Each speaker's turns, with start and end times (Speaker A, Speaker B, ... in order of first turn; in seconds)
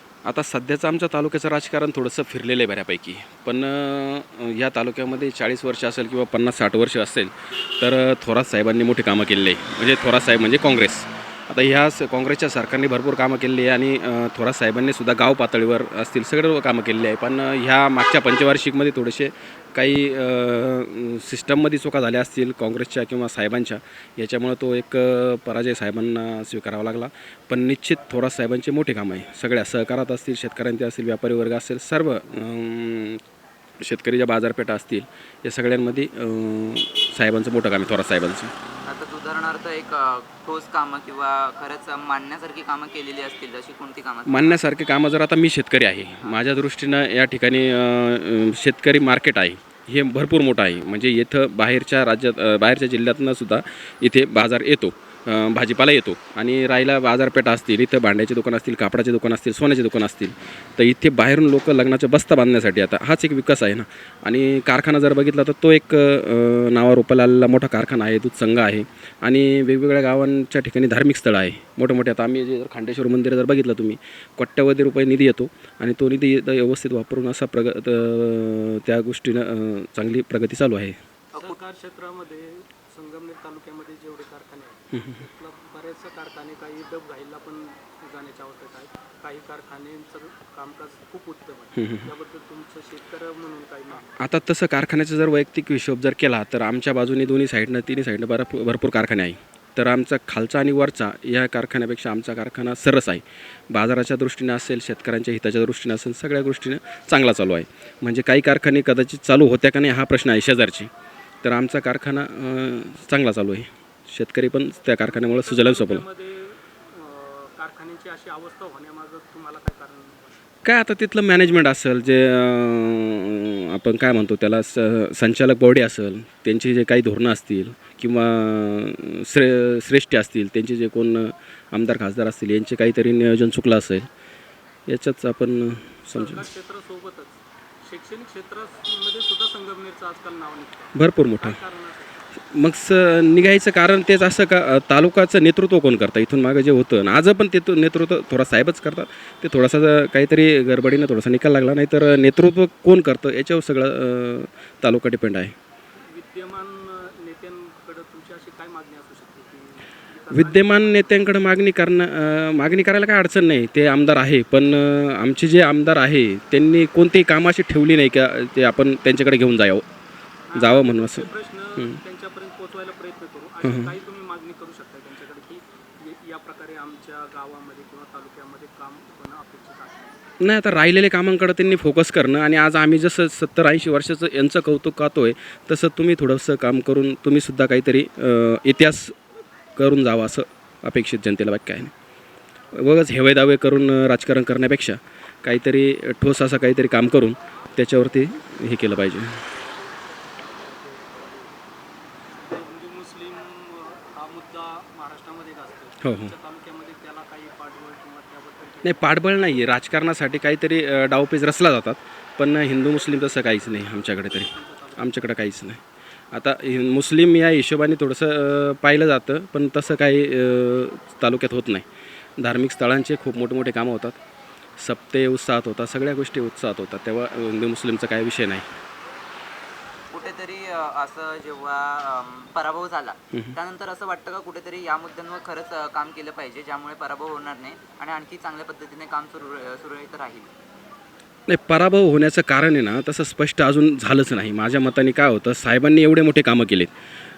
Speaker A: 0.2-33.2, 33.8-38.5, 44.3-80.9, 84.9-85.2, 91.8-92.1, 94.2-110.9, 111.4-116.0, 120.6-134.1, 134.9-136.4, 140.9-141.6, 142.5-155.5, 160.3-169.8, 170.5-171.9, 173.6-173.9, 180.4-189.2, 189.8-191.9, 192.7-199.4, 206.0-206.3, 208.8-215.8, 216.3-221.8, 222.4-224.2, 224.8-228.7, 241.5-246.9
Speaker B: 38.9-44.6, 230.1-240.5
Speaker C: 81.3-94.1, 115.1-120.4, 136.1-142.2, 156.0-161.1, 170.5-180.2, 199.5-201.5, 202.3-209.2, 213.9-215.3